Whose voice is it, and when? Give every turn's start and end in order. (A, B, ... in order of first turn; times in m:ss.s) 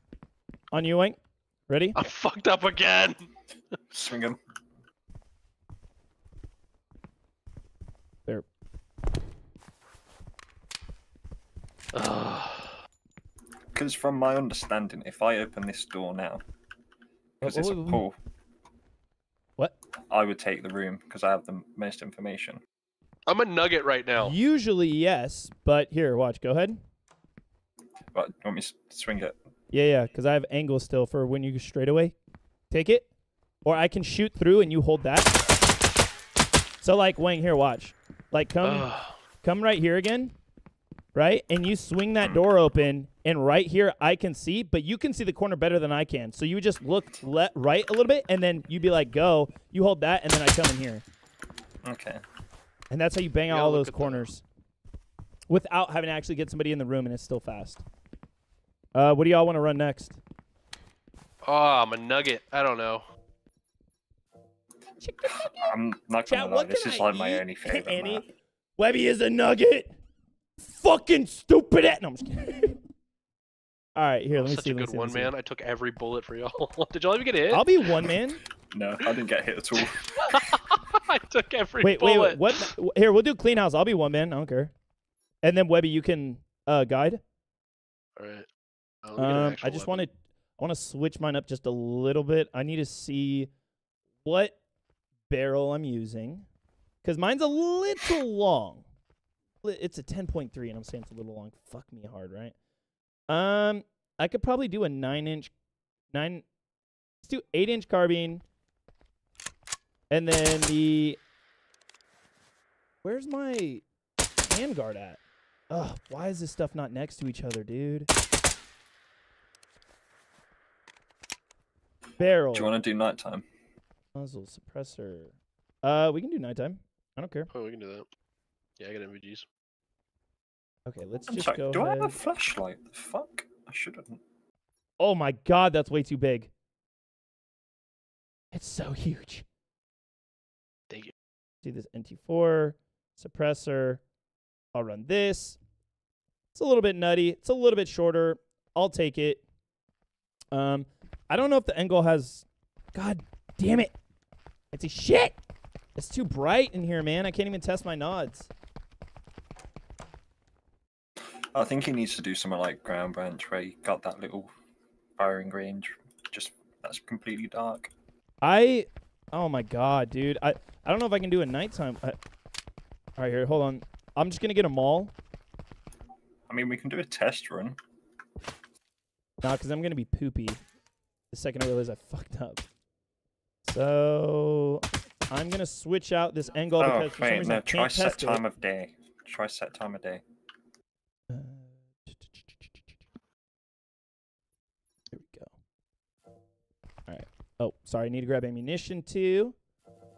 0:00.7-0:02.0 A
0:02.0-0:03.2 B
0:03.9-0:04.4 C
0:11.9-0:12.8 B
0:13.7-0:16.4 C
0:17.4-0:18.0 A
0:17.4-0:18.2 C
0:20.1-0:22.6 C
0:23.3-0:24.3 B
0:24.2-0:26.8 A
0:28.1-0:29.4 C
0:29.7-0:32.2 A
0:32.7-0:33.1 A
0:33.6-0:35.4 A
0:36.8-0:38.9 A
0:38.6-0:39.2 B
0:39.4-0:40.3 A
0:41.1-0:51.0 A
0:51.8-0:52.2 C
0:52.9-0:54.4 A
0:53.5-0:54.3 B
0:55.5-0:57.8 A
0:58.9-1:00.2 A
1:01.4-1:03.0 B
1:05.0-1:05.7 A
1:05.3-1:08.3 C
1:06.3-1:08.3 A
1:08.8-1:10.0 A
1:10.6-1:12.8 A
1:14.0-1:15.3 A
1:14.3-1:17.7 B
1:17.5-1:18.4 A
1:18.7-1:20.5 C
1:19.8-1:22.7 B
1:21.8-1:24.7 A
1:25.4-1:27.2 A
1:28.2-1:28.5 B
1:29.0-1:30.0 B
1:29.2-1:33.5 A
1:34.2-1:34.6 A
1:35.3-1:36.5 A
1:37.0-1:38.8 A
1:39.6-1:42.5 A
1:43.3-1:45.5 A
1:46.1-1:46.4 A
1:47.2-1:48.4 A
1:50.1-1:51.2 A
1:53.0-1:53.8 A
1:54.4-1:55.2 A
1:55.7-1:58.1 A
2:02.2-2:02.7 A
2:02.5-2:03.4 C
2:04.1-2:07.5 A
2:07.5-2:08.0 B
2:08.8-2:09.4 B
2:10.8-2:12.1 A
2:11.3-2:14.2 C
2:15.0-2:16.5 A
2:18.5-2:19.4 A
2:21.6-2:24.0 A
2:24.7-2:25.6 A
2:26.5-2:29.4 A
2:30.5-2:33.9 A
2:34.7-2:35.4 A
2:36.0-2:38.5 A
2:41.2-2:44.5 C
2:45.2-2:47.9 C
2:48.4-2:52.2 A
2:53.2-2:55.1 A
2:56.5-2:57.8 C
2:59.4-3:00.6 A
3:01.3-3:02.6 A
3:03.6-3:08.4 A
3:06.8-3:10.2 C
3:11.3-3:12.8 A
3:15.1-3:15.5 A
3:17.1-3:19.5 A